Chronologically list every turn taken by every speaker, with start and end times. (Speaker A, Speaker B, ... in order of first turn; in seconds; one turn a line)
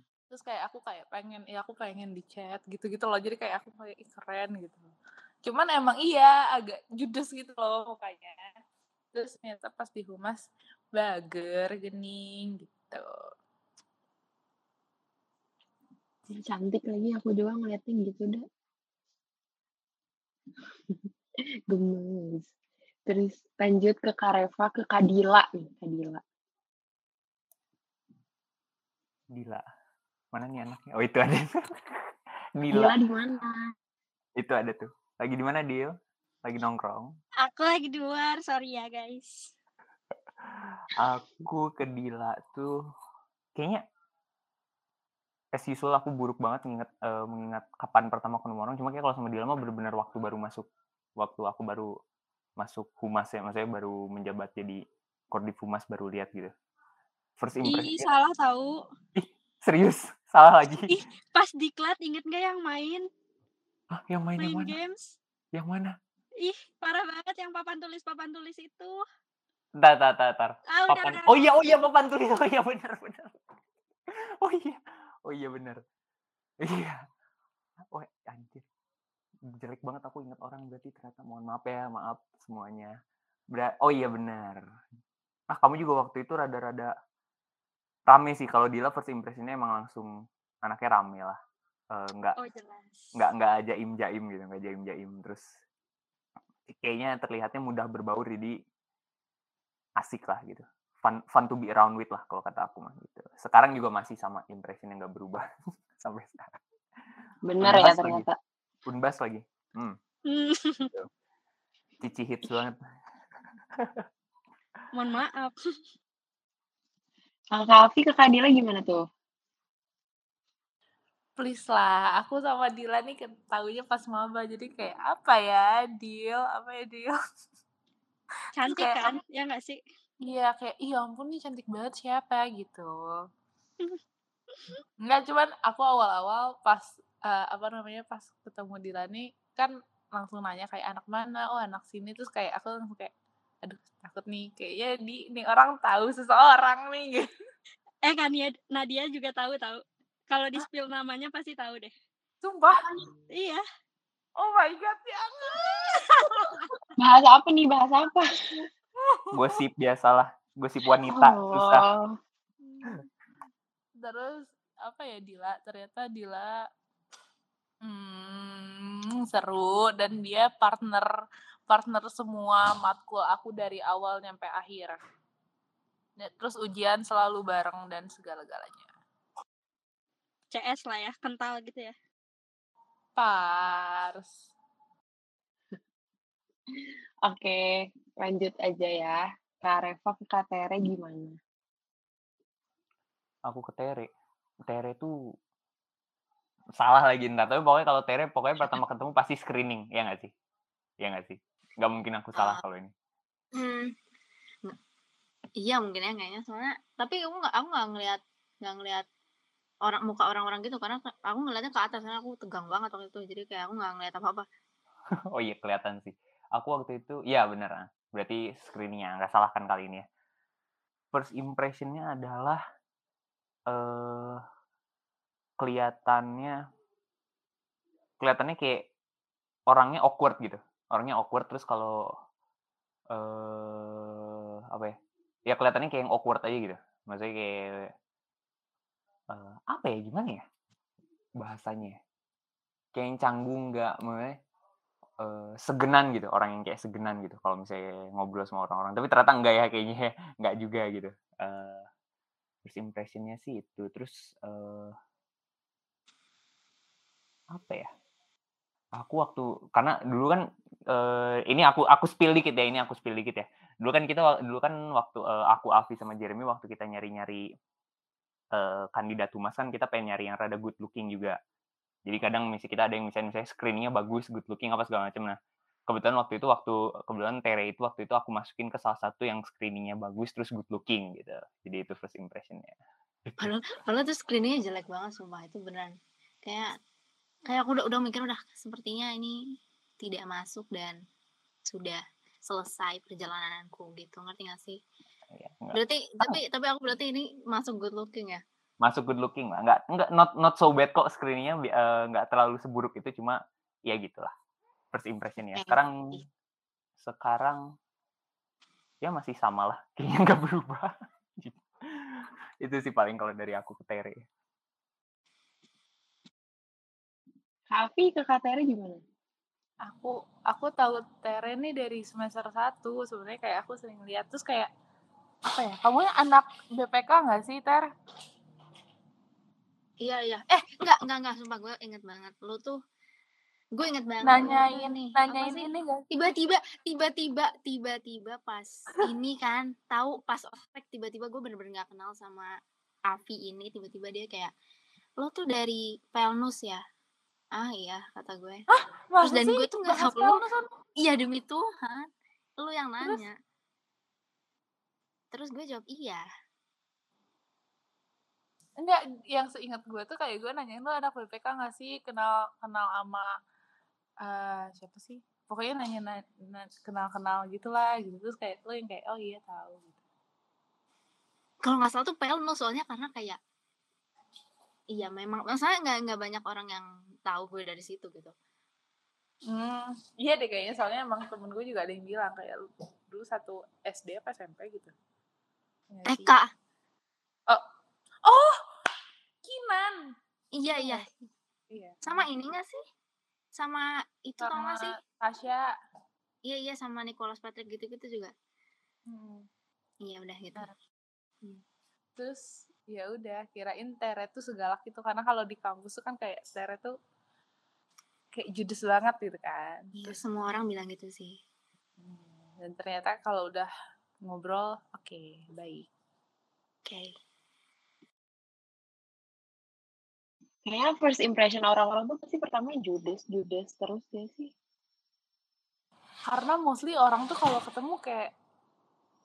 Speaker A: 0.3-4.9
Speaker A: 5.4-8.5
Speaker A: 9.1-10.4
Speaker A: 10.9-13.0
Speaker B: 16.3-18.4
Speaker B: 21.7-22.5
Speaker B: 23.1-26.2
Speaker C: 29.3-29.6
Speaker C: 30.3-33.0
Speaker B: 32.7-33.7
Speaker C: 34.4-35.9
Speaker C: 36.5-37.1
Speaker D: 37.4-39.5
Speaker C: 40.5-42.7
Speaker C: 43.6-43.8
Speaker C: 45.5-50.7
Speaker C: 51.2-51.9
Speaker C: 52.6-54.8
Speaker C: 55.3-56.5
Speaker C: 57.4-58.1
Speaker D: 57.6-58.8
Speaker C: 59.1-61.0
Speaker D: 60.9-63.1
Speaker C: 63.9-64.8
Speaker D: 64.4-65.1
Speaker C: 65.5-65.9
Speaker D: 66.4-69.0
Speaker C: 69.8-73.3
Speaker D: 70.7-71.6
Speaker C: 74.4-75.8
Speaker C: 76.6-77.0
Speaker C: 77.9-78.6
Speaker C: 79.5-82.9
Speaker C: 83.5-84.6
Speaker C: 85.5-86.9
Speaker C: 88.1-90.1
Speaker C: 90.6-91.4
Speaker C: 91.9-92.4
Speaker D: 92.4-93.0
Speaker C: 93.2-95.4
Speaker C: 96.7-98.6
Speaker C: 100.0-105.5
Speaker C: 106.0-106.6
Speaker B: 107.5-108.4
Speaker C: 107.6-108.3
Speaker C: 108.9-110.0
Speaker D: 110.3-110.9
Speaker C: 112.0-112.8
Speaker C: 113.8-114.1
Speaker D: 114.9-115.6
Speaker B: 117.5-119.0
Speaker A: 121.4-127.2
Speaker D: 128.6-129.8
Speaker A: 128.7-129.1
Speaker A: 130.3-133.1
Speaker A: 135.0-143.1
Speaker A: 143.6-147.2
Speaker D: 148.0-151.9
Speaker A: 152.4-152.8
Speaker D: 153.3-153.6
Speaker A: 154.4-156.4
Speaker B: 157.0-158.4
Speaker C: 159.3-161.8
Speaker B: 161.1-162.2
Speaker A: 162.7-162.9
Speaker A: 164.0-166.5
Speaker A: 167.8-171.1
Speaker A: 171.7-175.0
Speaker A: 176.2-178.9
Speaker D: 180.5-181.9
Speaker A: 183.2-184.4
Speaker B: 187.2-191.4
Speaker C: 193.5-194.1
Speaker C: 194.7-195.1
Speaker C: 196.8-200.3
Speaker C: 201.0-202.9
Speaker E: 203.6-203.9
Speaker E: 205.6-209.1
Speaker E: 209.8-214.5
Speaker C: 215.3-220.0
Speaker C: 221.1-222.6
Speaker C: 223.7-224.4
Speaker C: 225.6-226.6
Speaker C: 228.2-228.9
Speaker C: 229.7-232.0
Speaker C: 233.1-234.9
Speaker C: 235.5-237.9
Speaker C: 239.3-240.4
Speaker C: 241.4-242.0
Speaker C: 242.9-244.4
Speaker C: 245.2-251.9
Speaker C: 252.7-254.9
Speaker C: 257.5-257.9
Speaker C: 258.9-267.4
Speaker C: 268.5-271.4
Speaker C: 272.1-275.4
Speaker C: 275.9-282.7
Speaker E: 283.4-286.7
Speaker E: 287.5-289.4
Speaker E: 290.0-291.0
Speaker E: 291.7-294.8
Speaker C: 295.4-296.4
Speaker E: 295.7-298.4
Speaker C: 298.8-304.3
Speaker C: 304.9-306.2
Speaker C: 307.0-307.6
Speaker C: 309.0-311.6
Speaker C: 312.2-314.2
Speaker B: 317.7-319.0
Speaker A: 319.9-324.7
Speaker A: 325.5-327.9
Speaker E: 330.0-332.8
Speaker E: 333.8-342.5
Speaker A: 334.2-336.1
Speaker E: 343.1-344.5
Speaker E: 345.2-346.8
Speaker E: 347.5-348.6
Speaker A: 348.7-350.7
Speaker E: 349.2-350.4
Speaker E: 351.0-352.1
Speaker E: 352.6-353.4
Speaker E: 355.3-356.2
Speaker A: 358.8-363.3
Speaker A: 364.2-370.0
Speaker E: 371.6-373.4
Speaker E: 374.9-378.3
Speaker A: 379.5-384.9
Speaker A: 385.9-386.3
Speaker E: 386.1-386.5
Speaker A: 388.2-388.6
Speaker A: 389.4-390.0
Speaker E: 390.6-391.1
Speaker A: 390.8-391.1
Speaker A: 391.7-392.2
Speaker E: 392.0-392.8
Speaker E: 393.6-394.9
Speaker A: 394.4-395.7
Speaker E: 396.5-398.3
Speaker A: 399.1-399.5
Speaker E: 400.0-400.7
Speaker A: 402.2-406.9
Speaker A: 408.4-410.2
Speaker E: 410.0-411.4
Speaker A: 412.0-413.7
Speaker A: 414.2-415.9
Speaker E: 416.9-417.1
Speaker B: 420.7-424.5
Speaker A: 426.3-428.3